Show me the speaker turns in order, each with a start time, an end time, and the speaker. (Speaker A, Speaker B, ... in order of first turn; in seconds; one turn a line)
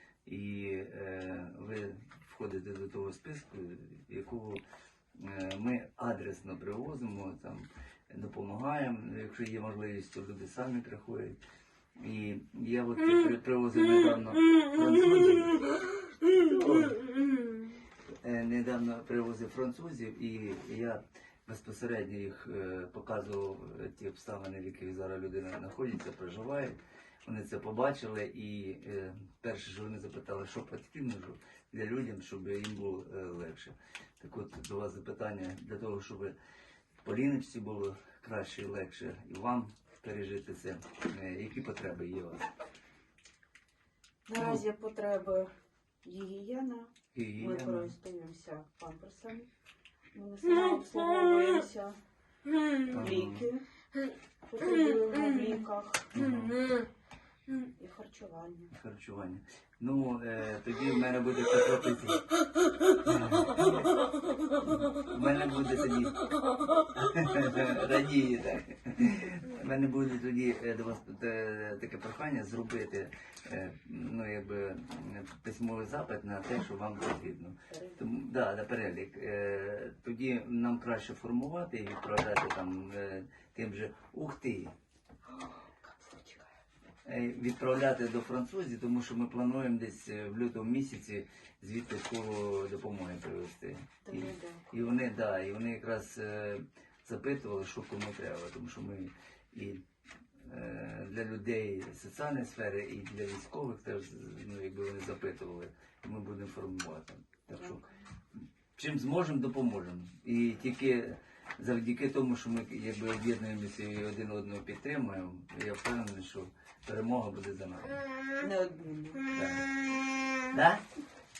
Speaker A: 0.2-4.6
Speaker A: 5.1-11.4
Speaker A: 12.0-17.1
Speaker A: 18.2-36.4
Speaker A: 37.0-42.5
Speaker B: 44.3-45.5
Speaker A: 44.3-44.6
Speaker B: 46.0-49.5
Speaker A: 47.1-47.9
Speaker B: 50.1-52.0
Speaker A: 52.9-53.5
Speaker B: 52.9-53.6
Speaker B: 54.5-56.2
Speaker A: 56.1-56.7
Speaker B: 57.5-58.7
Speaker A: 58.7-62.3
Speaker A: 63.0-64.0
Speaker A: 64.6-66.2
Speaker A: 66.8-84.7
Speaker B: 77.7-78.0
Speaker B: 85.2-86.5
Speaker A: 87.0-99.8
Speaker B: 94.0-94.9
Speaker A: 100.4-107.8
Speaker B: 107.5-107.9
Speaker A: 108.3-118.0
Speaker B: 118.4-119.2
Speaker A: 119.3-119.7
Speaker A: 120.5-120.8